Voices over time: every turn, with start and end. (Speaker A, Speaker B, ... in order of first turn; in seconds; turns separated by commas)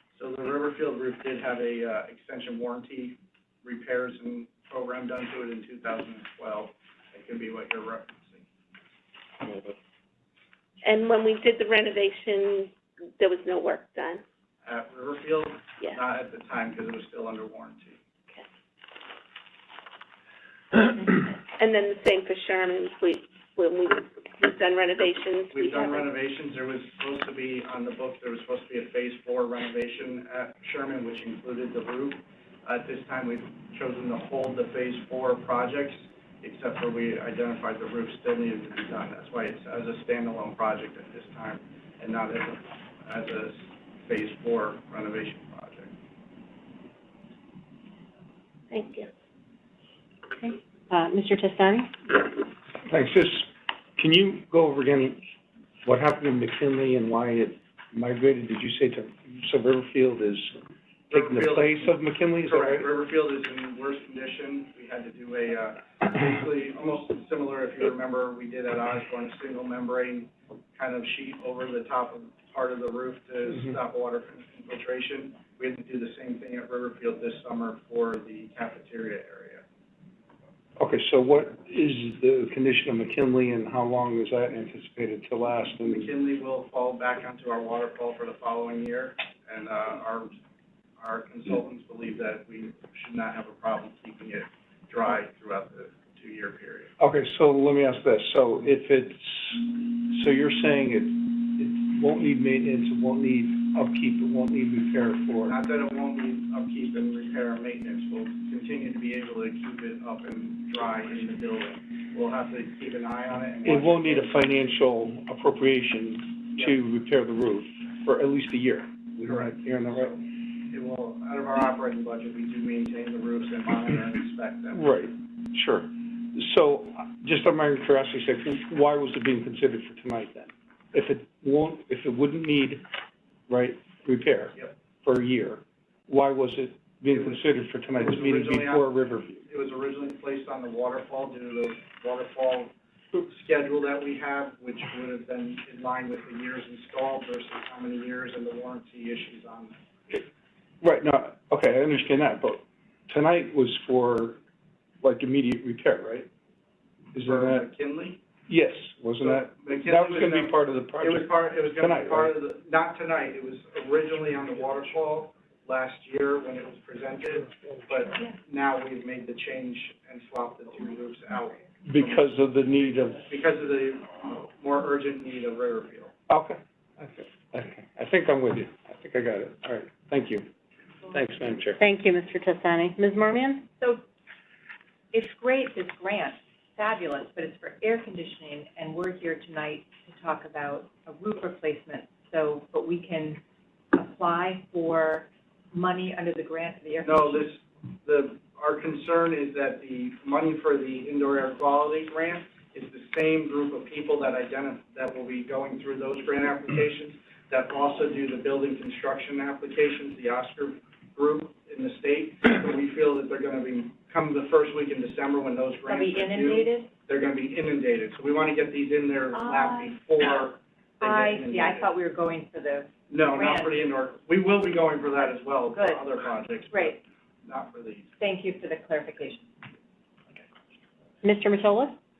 Speaker A: 0.1-8.4, Speaker B: 10.8-14.2, Speaker A: 14.6-17.9, Speaker B: 20.9-26.1, Speaker A: 25.5-45.9, Speaker B: 48.7-49.1, Speaker C: 50.4-51.9, Speaker D: 52.8-55.2, Speaker D: 55.8-60.5, Speaker A: 61.1-61.9, Speaker D: 61.1-62.9, Speaker A: 62.5-79.6, Speaker D: 80.8-86.1, Speaker A: 85.8-90.3, Speaker A: 91.0-96.9, Speaker D: 97.0-105.5, Speaker A: 105.5-114.3, Speaker D: 113.6-120.1, Speaker A: 119.3-124.8, Speaker D: 124.7-132.8, Speaker D: 133.5-139.4, Speaker A: 137.1-137.4, Speaker A: 137.9-138.8, Speaker A: 139.4-149.8, Speaker D: 150.8-154.4, Speaker D: 155.0-156.3, Speaker D: 157.1-157.7, Speaker A: 157.2-158.2, Speaker D: 158.5-162.3, Speaker A: 159.2-176.1, Speaker D: 171.8-173.2, Speaker D: 176.3-180.4, Speaker D: 181.1-181.8, Speaker C: 181.8-183.6, Speaker E: 185.1-193.4, Speaker E: 193.9-197.4, Speaker A: 197.0-221.9, Speaker E: 215.9-216.9, Speaker E: 219.3-219.9, Speaker E: 221.0-223.8, Speaker A: 223.1-228.1, Speaker E: 225.7-227.0, Speaker E: 228.2-229.5, Speaker C: 231.2-231.9